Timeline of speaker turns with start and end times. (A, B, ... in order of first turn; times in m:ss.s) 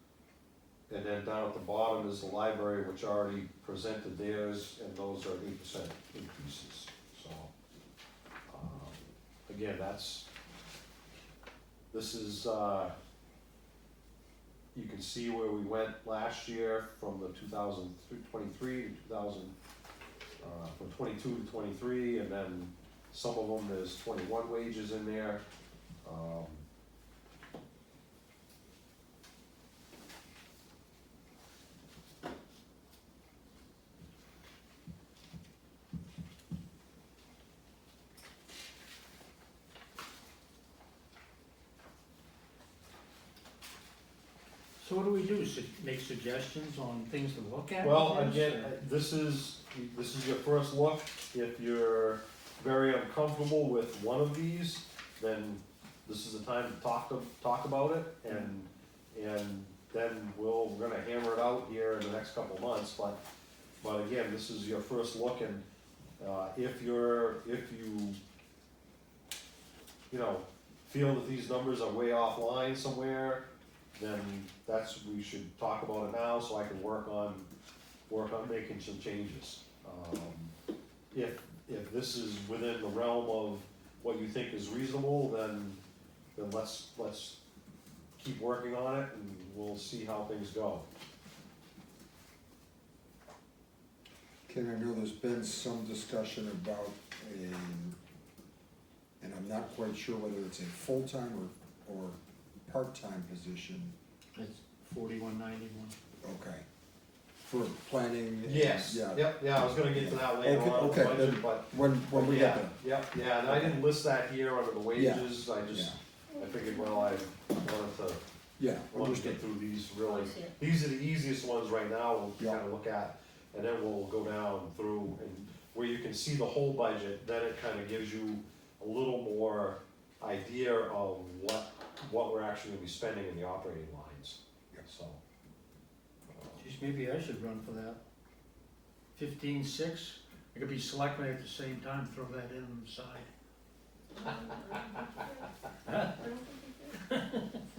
0:00.9-0:07.5 A
0:08.5-0:10.3 A
0:11.9-0:13.0 A
0:14.7-0:19.5 A
0:20.4-0:25.4 A
0:26.0-0:26.6 A
0:44.8-0:48.7 B
0:47.8-1:03.2 A
1:03.8-1:05.6 A
1:06.2-1:08.2 A
1:10.1-1:17.5 A
1:18.1-1:20.5 A
1:21.1-1:25.8 A
1:26.4-1:27.4 A
1:28.2-1:30.9 A
1:34.5-1:38.0 C
1:39.2-1:43.9 C
1:44.4-1:46.0 B
1:46.2-1:46.6 C
1:47.4-1:52.8 C
1:48.4-1:58.2 A
1:53.4-1:53.8 C
1:55.0-1:56.0 C
1:56.3-1:57.3 D
1:58.6-1:59.4 C
1:58.9-2:15.2 A
2:00.0-2:00.5 D
2:16.3-2:16.7 A
2:16.6-2:18.0 B
2:19.2-2:23.3 B
2:24.2-2:27.1 D
2:25.8-2:26.2 B
2:27.1-2:27.6 B